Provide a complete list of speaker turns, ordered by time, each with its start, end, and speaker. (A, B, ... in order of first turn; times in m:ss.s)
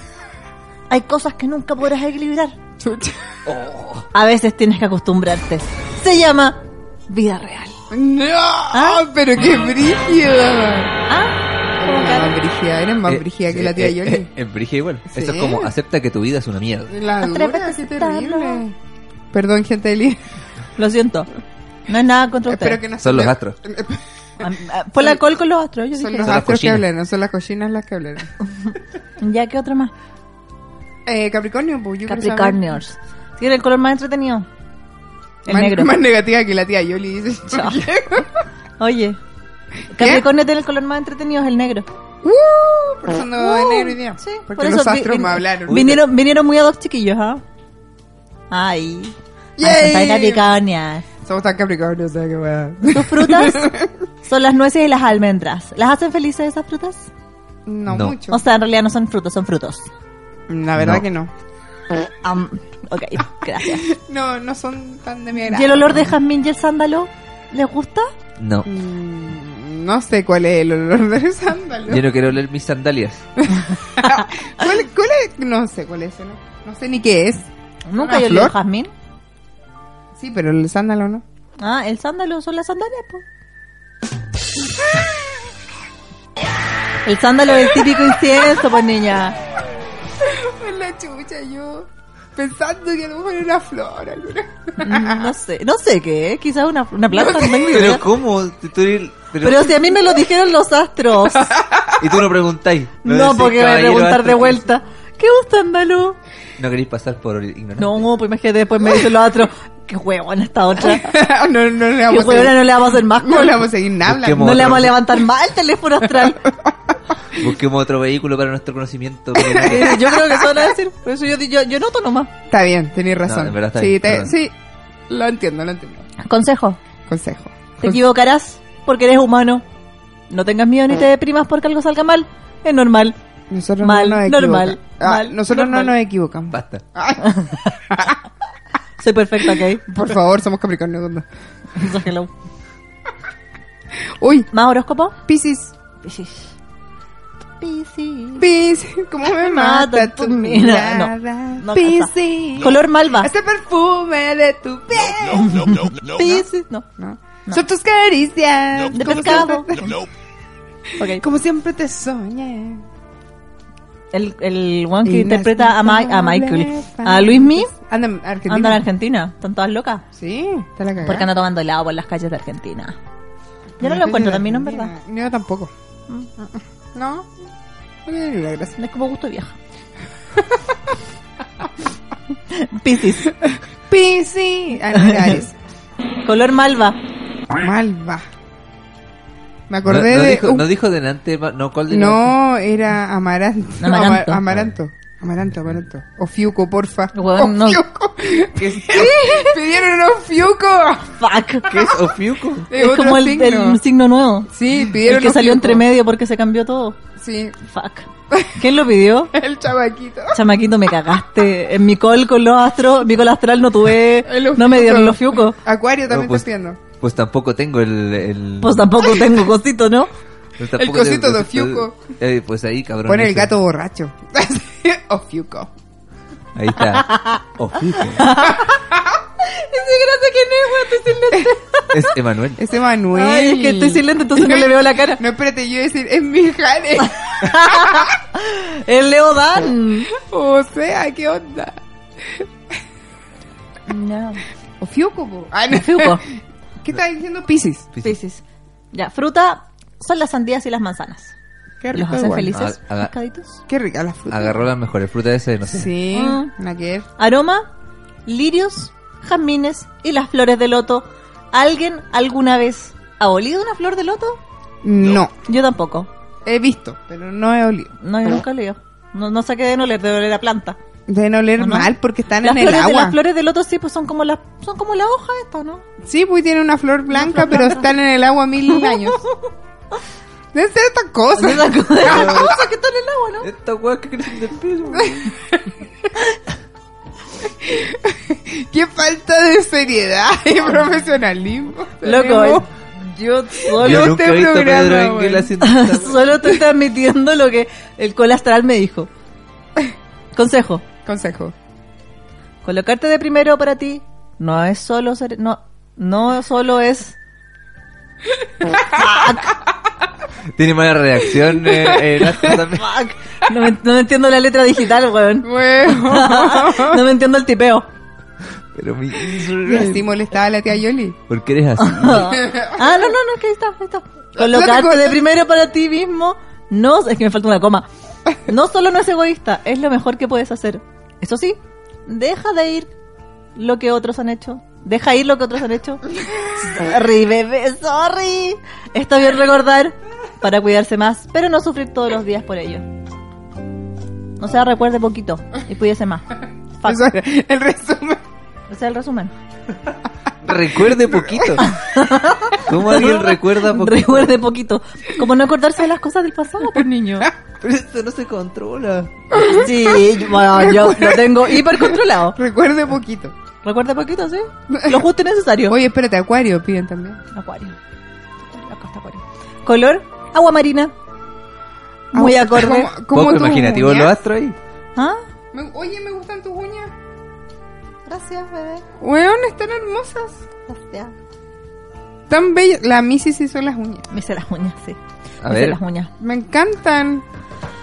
0:00.9-0:02.6 A
0:02.8-0:03.3 B
0:03.4-0:04.1 C
0:04.1-0:07.8 A
0:07.9-0:11.0 B
0:08.7-0:09.1 A
0:11.1-0:12.4 A
0:11.8-0:14.3 B
0:13.1-0:16.9 C
0:15.1-0:15.7 B
0:16.9-0:18.7 B
0:17.2-0:18.6 A
0:19.3-0:20.2 B
0:20.8-0:21.3 A
0:21.9-0:22.8 A
0:22.5-0:24.0 B
0:23.0-0:23.6 C
0:24.4-0:26.4 A
0:25.9-0:28.3 B
0:26.2-0:26.8 C
0:29.2-0:29.9 A
0:31.0-0:32.6 B
0:32.1-0:34.4 A
0:35.4-0:36.0 A
0:35.5-0:38.4 B
0:37.5-0:37.8 A
0:38.8-0:39.2 A
0:39.9-0:41.9 A
0:39.9-0:40.2 B
0:42.2-0:46.0 B
0:43.4-0:47.4 A
0:45.7-0:46.0 C
0:48.5-0:51.0 A
0:49.6-0:50.4 B
0:51.2-0:53.9 B
0:52.8-0:53.7 A
0:54.2-0:57.1 A
0:57.6-0:58.4 B
0:57.9-0:58.2 C
0:58.3-0:59.9 A
1:00.5-1:01.3 B
1:00.8-1:01.0 C
1:02.2-1:03.9 A
1:03.8-1:06.2 B
1:05.5-1:08.1 A
1:08.4-1:08.7 C
1:08.6-1:12.0 B
1:11.9-1:13.2 C
1:13.4-1:18.5 B
1:17.9-1:18.9 A
1:20.1-1:21.2 B
1:21.6-1:23.2 A
1:27.0-1:29.4 A
1:30.2-1:35.3 B
1:34.8-1:38.0 A
1:37.1-1:37.9 B
1:37.7-1:39.9 C
1:39.4-1:41.5 A
1:41.2-1:42.2 B
1:42.0-1:44.6 C
1:43.0-1:46.2 A
1:46.6-1:48.1 C
1:47.8-1:51.1 A
1:50.8-1:54.6 B
1:52.1-1:53.7 A
1:54.0-1:55.1 C
1:54.4-1:56.5 A
1:56.1-1:57.0 B
1:57.3-2:00.0 C
1:59.4-2:00.6 B
1:59.5-2:02.3 A
2:02.5-2:04.5 B
2:03.3-2:04.3 C
2:05.1-2:06.1 B
2:06.2-2:06.8 A
2:07.1-2:08.0 B
2:07.8-2:09.6 A
2:10.3-2:13.2 A
2:13.5-2:18.2 B
2:13.8-2:15.9 A
2:16.5-2:16.8 C
2:17.2-2:17.8 A
2:19.0-2:19.9 A
2:19.8-2:21.3 B
2:21.7-2:22.3 A
2:24.2-2:24.5 B
2:24.5-2:25.2 A
2:25.3-2:25.7 B
2:26.0-2:26.4 A
2:27.6-2:28.5 A
2:28.4-2:36.4 B
2:29.2-2:33.3 A
2:35.4-2:36.9 A
2:37.0-2:40.1 B
2:38.9-2:40.0 A
2:41.0-2:41.2 A
2:41.0-2:42.8 B
2:44.1-2:47.7 A
2:45.0-2:48.8 B
2:48.5-2:50.0 A
2:50.1-2:51.3 B
2:51.0-2:53.0 A
2:53.8-2:55.7 B
2:53.8-2:54.9 A
2:56.4-2:57.3 B
2:58.0-2:58.8 B
2:58.8-2:59.6 A
3:00.4-3:00.6 B
3:02.5-3:03.3 A
3:03.9-3:05.5 B
3:04.9-3:05.4 A
3:06.2-3:07.0 A
3:07.5-3:08.2 B
3:09.7-3:10.7 B
3:09.8-3:12.4 C
3:11.9-3:21.2 B
3:13.8-3:14.4 A
3:17.1-3:17.8 A
3:18.6-3:19.0 C
3:18.9-3:19.6 A
3:21.2-3:21.7 A
3:21.7-3:22.7 C
3:22.7-3:23.8 B
3:22.7-3:24.5 A
3:24.5-3:25.8 B
3:25.0-3:27.0 A
3:27.2-3:27.6 B
3:27.6-3:29.3 A
3:28.3-3:28.6 B
3:29.3-3:30.4 B
3:30.3-3:35.6 A
3:34.2-3:36.8 B
3:36.1-3:36.4 C
3:37.0-3:39.1 C
3:38.6-3:40.1 A
3:40.6-3:43.6 C
3:40.8-3:42.1 B
3:43.0-3:45.7 B
3:46.6-3:48.3 C
3:47.0-3:47.4 A
3:48.2-3:48.7 A
3:48.5-3:49.2 B
3:49.4-3:52.0 A
3:51.9-3:52.6 C
3:52.6-3:58.1 B
3:53.1-3:55.2 A
3:57.2-4:00.1 A
4:00.1-4:02.5 B
4:03.9-4:04.4 A
4:04.8-4:07.9 B
4:05.7-4:06.2 A
4:08.0-4:11.3 A
4:11.8-4:12.6 B
4:11.9-4:13.6 A
4:12.5-4:13.1 C
4:13.7-4:14.6 B
4:14.3-4:15.9 C
4:15.7-4:17.1 B
4:16.1-4:16.5 A
4:17.2-4:17.7 A
4:18.2-4:24.4 A
4:24.8-4:25.3 B
4:25.4-4:26.1 A
4:26.4-4:27.9 B
4:28.0-4:30.8 A
4:31.1-4:33.2 B
4:31.6-4:35.8 A
4:36.0-4:39.2 B
4:37.1-4:37.9 A
4:38.7-4:39.5 A
4:40.5-4:42.7 B
4:41.3-4:43.5 A
4:42.0-4:42.5 C
4:43.4-4:45.3 C
4:44.9-4:45.6 B
4:47.4-4:52.6 B
4:52.0-4:54.1 A
4:53.6-4:55.5 B
4:53.8-4:56.3 C
4:55.6-4:59.1 A
5:00.3-5:00.8 A
5:01.0-5:01.5 B
5:02.6-5:07.2 A
5:08.8-5:09.6 A
5:10.6-5:12.9 C
5:11.7-5:12.6 B
5:12.7-5:17.9 A
5:15.4-5:17.0 B
5:18.7-5:20.1 C
5:19.6-5:21.2 B
5:21.3-5:22.4 C
5:21.8-5:27.9 A
5:22.4-5:23.0 B
5:24.4-5:25.2 B
5:28.4-5:32.9 A
5:33.5-5:42.8 A
5:44.4-5:47.1 A
5:46.8-5:48.2 B
5:48.7-5:49.3 A
5:50.4-5:51.8 C
5:50.4-5:51.6 B
5:51.6-5:57.3 A
5:52.5-5:54.3 C
5:56.8-5:57.3 B
5:57.6-5:59.4 C
5:59.3-6:03.3 B
5:59.3-6:02.4 A
6:03.6-6:05.8 A
6:04.7-6:05.0 B
6:05.7-6:07.2 B
6:07.3-6:07.8 A
6:08.4-6:10.9 A
6:12.1-6:12.9 A
6:12.1-6:14.2 B
6:13.1-6:14.6 C
6:15.0-6:15.2 A
6:15.5-6:16.9 B
6:18.0-6:18.8 A
6:19.0-6:20.4 B
6:20.7-6:21.1 A
6:22.3-6:24.1 B
6:24.1-6:26.1 A
6:25.4-6:25.8 C
6:26.2-6:27.2 B